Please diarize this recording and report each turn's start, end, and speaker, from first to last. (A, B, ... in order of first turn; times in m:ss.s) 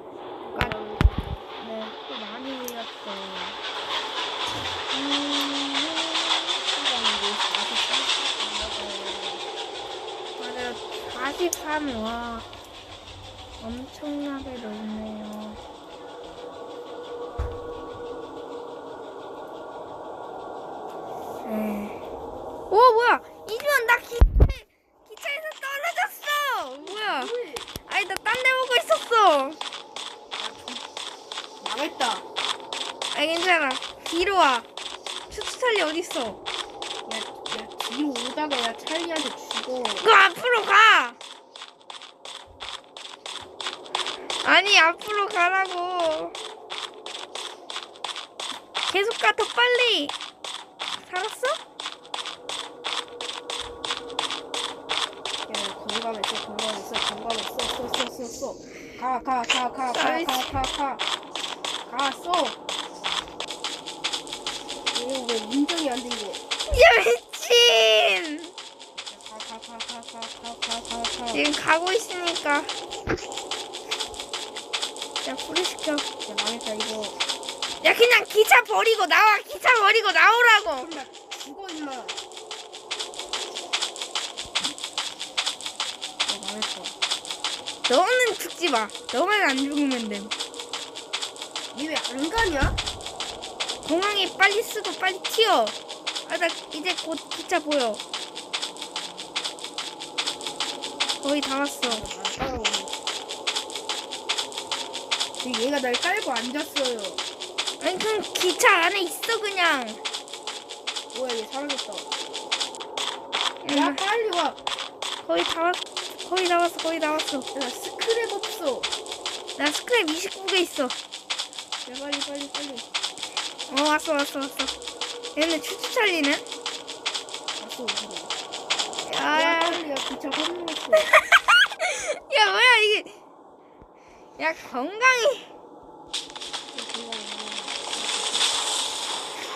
0:00.4-0:01.5 A
0:01.6-0:03.6 B
0:04.9-0:06.5 B
0:06.7-0:09.4 A
0:10.4-0:12.5 B
0:13.6-0:15.6 B
0:21.4-0:22.0 B
0:22.7-0:27.3 B
0:26.8-0:27.7 A
0:27.8-0:29.6 B
0:30.4-0:30.9 A
0:31.6-0:32.2 A
0:33.1-0:34.7 B
0:35.3-0:36.4 B
0:37.0-0:40.1 A
0:40.0-0:41.2 B
0:44.4-0:46.4 B
0:48.9-0:50.1 B
0:50.9-0:51.6 B
0:55.5-1:01.0 A
0:59.9-1:00.6 B
1:01.9-1:02.6 A
1:04.9-1:06.4 A
1:06.7-1:08.5 B
1:09.1-1:11.4 A
1:11.3-1:12.7 B
1:15.2-1:16.1 B
1:16.2-1:17.2 A
1:17.8-1:20.9 B
1:20.8-1:22.2 A
1:26.2-1:27.0 A
1:27.9-1:30.3 B
1:31.7-1:32.8 A
1:33.8-1:38.0 B
1:41.2-1:42.1 B
1:41.8-1:43.0 A
1:45.4-1:47.2 A
1:47.8-1:50.0 B
1:51.1-1:52.1 A
1:53.6-1:54.0 B
1:53.7-1:54.6 A
1:55.2-1:57.5 B
1:57.5-1:58.9 A
1:59.6-2:01.0 B
2:01.8-2:02.9 A
2:03.7-2:04.7 B
2:05.4-2:06.4 B
2:07.6-2:08.4 A
2:09.0-2:09.8 B
2:09.3-2:11.1 A
2:11.2-2:13.2 B
2:14.4-2:15.5 B
2:16.7-2:18.5 A